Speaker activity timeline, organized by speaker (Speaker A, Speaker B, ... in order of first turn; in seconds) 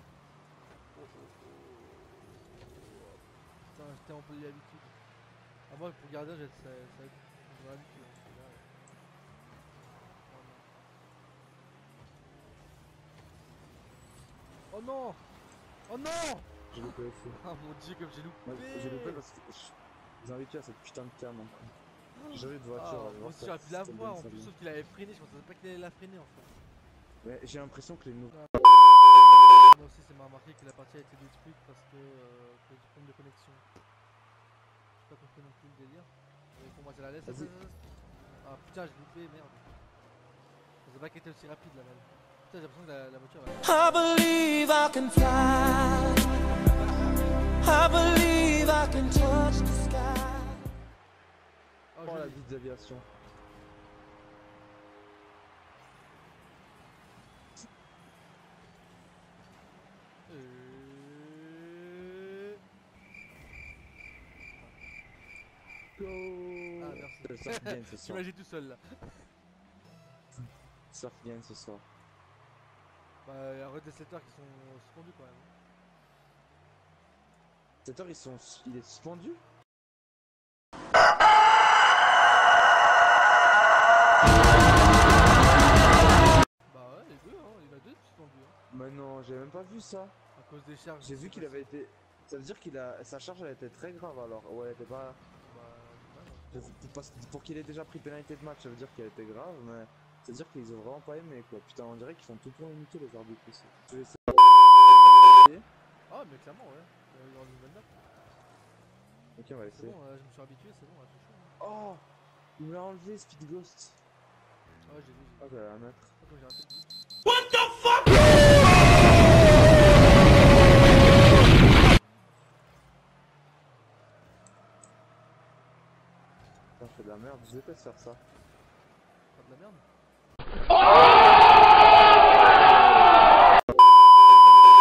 Speaker A: 0.9-4.9, 5.7-8.7, 10.2-10.7, 14.7-15.2, 15.9-16.6, 17.3-19.2, 22.2-26.5, 29.6-33.6, 35.0-37.8, 38.4-39.7, 40.8-44.0, 46.6-47.2, 48.3-49.0, 51.9-52.4, 60.3-62.6, 66.8-69.3, 73.2-75.5, 86.7-88.5, 90.3-91.7, 95.4-96.9, 106.1-107.9, 109.7-111.5, 114.9-115.5, 116.2-116.9, 129.3-129.8
Speaker B: 16.7-17.4, 18.4-21.7, 22.3-24.5, 27.2-28.4, 37.2-37.5, 52.0-53.1, 66.0-68.2, 70.4-71.8, 77.8-79.4, 88.7-90.2, 91.0-95.2, 96.5-104.2, 105.3-105.7, 109.3-110.0, 111.6-112.0, 112.6-114.0, 115.4-116.1, 126.8-128.2
Speaker C: 43.6-46.6, 47.5-50.7